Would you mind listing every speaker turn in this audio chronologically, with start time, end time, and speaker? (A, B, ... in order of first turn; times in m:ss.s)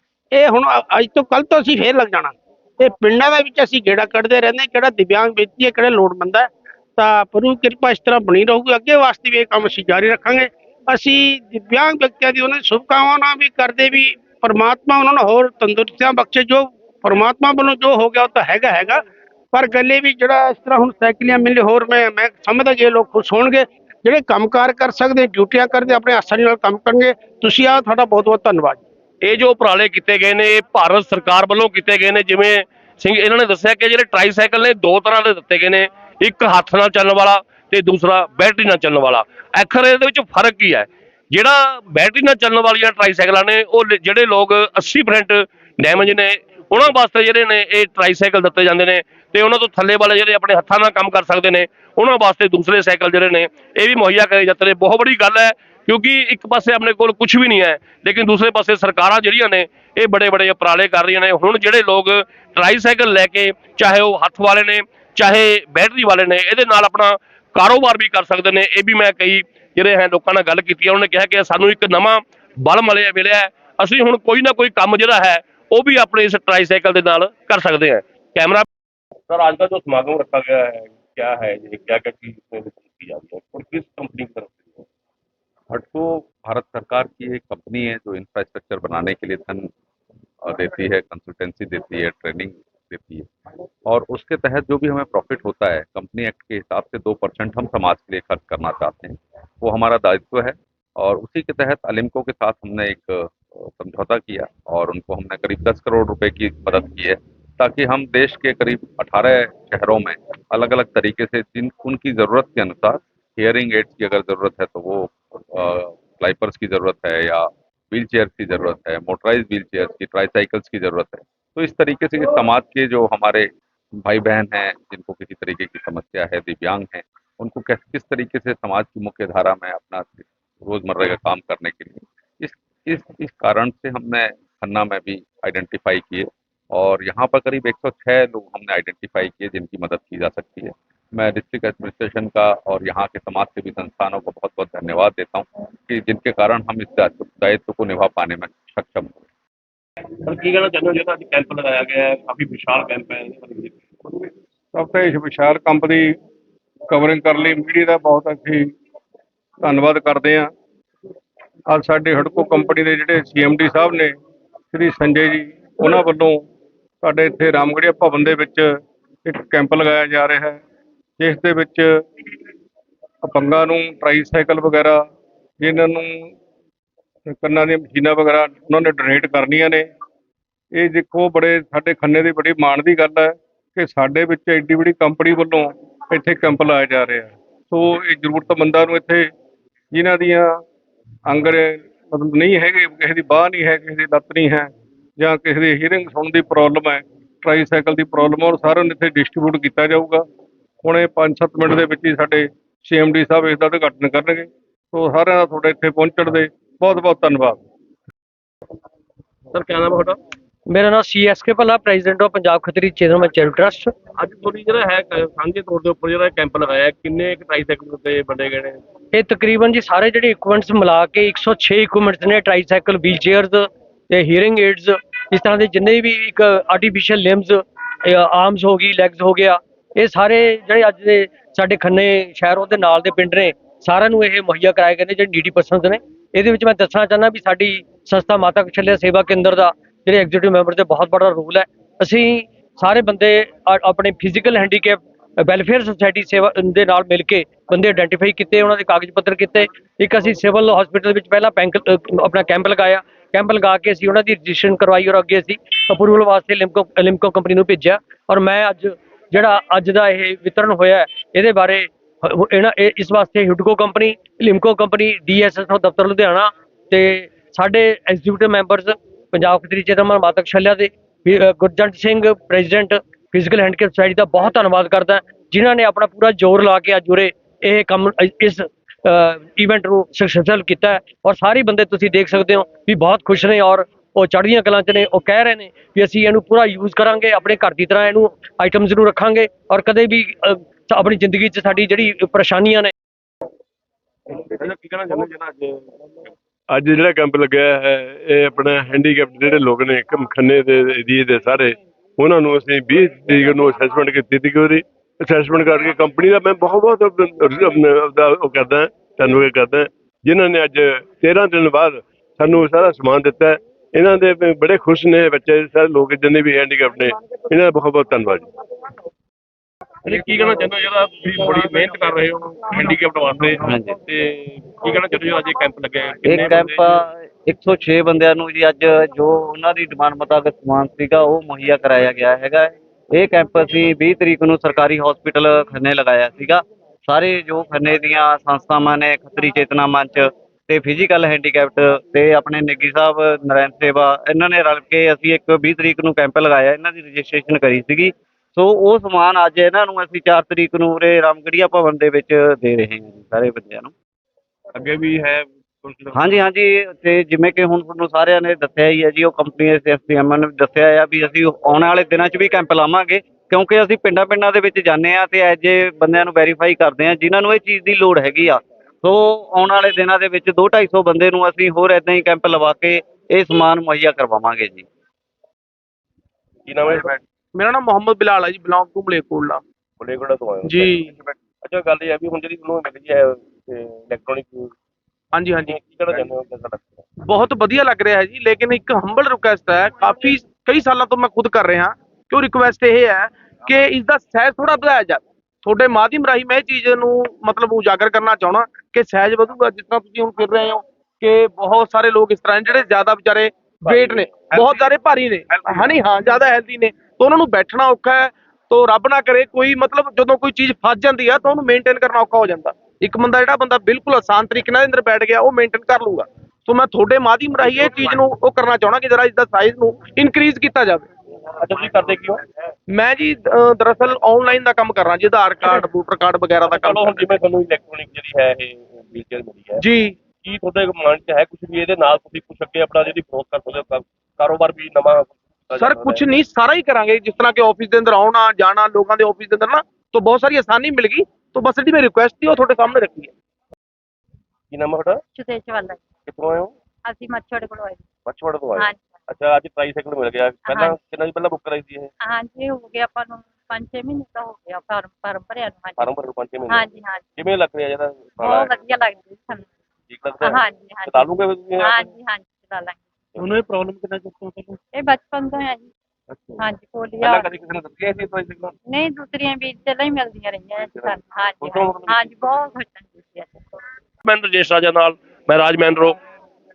0:00.3-0:19.0 A
0:19.5-0:28.8 A
0:29.2-1:18.7 B
1:19.3-1:24.8 B
1:25.7-1:29.7 C
1:30.4-1:33.3 C
1:33.9-2:03.5 C
2:04.0-2:29.2 C
2:30.2-2:34.2 B
2:34.7-2:36.1 D
2:36.9-2:38.7 D
2:39.6-2:40.5 D
2:41.7-2:44.2 D
2:44.7-2:46.4 D
2:47.0-2:48.7 D
2:49.2-2:50.6 D
2:51.2-2:51.9 D
2:53.2-2:55.0 D
2:55.6-2:56.3 D
2:57.3-2:59.9 D
3:00.7-3:09.3 D
3:09.9-3:10.6 D
3:11.3-3:20.2 D
3:20.8-3:27.6 D
3:29.5-3:30.2 B
3:30.7-3:33.9 E
3:34.2-3:38.8 B
3:39.1-4:52.9 E
4:54.3-4:56.1 B
4:56.7-5:18.5 F
5:20.0-5:27.0 B
5:23.6-5:24.0 G
5:26.2-5:53.9 G
5:54.8-5:56.2 B
5:56.1-6:14.9 G
6:16.6-6:17.2 B
6:17.5-6:19.6 H
6:20.0-6:24.7 B
6:20.6-6:21.1 H
6:25.3-6:25.8 H
6:25.6-6:27.0 B
6:27.2-7:01.0 H
6:43.9-6:44.8 B
6:57.6-6:58.2 B
7:01.5-7:02.4 B
7:02.9-7:07.4 H
7:05.6-7:05.9 B
7:06.6-7:09.8 B
7:09.8-7:10.1 H
7:10.4-7:16.3 B
7:15.8-7:23.3 H
7:24.7-7:25.2 B
7:25.4-7:26.0 I
7:26.2-7:26.7 B
7:27.0-7:28.0 I
7:28.2-7:32.1 B
7:28.8-7:29.1 I
7:30.6-7:31.0 I
7:32.2-7:36.2 I
7:36.0-7:38.8 B
7:36.7-7:37.2 I
7:38.4-7:39.7 I
7:40.1-7:42.1 B
7:40.4-7:43.4 I
7:43.4-7:44.8 B
7:44.9-7:45.9 I
7:46.6-7:47.5 I
7:47.2-7:48.7 B
7:48.9-7:53.6 I
7:50.8-7:52.4 B
7:54.2-7:56.2 B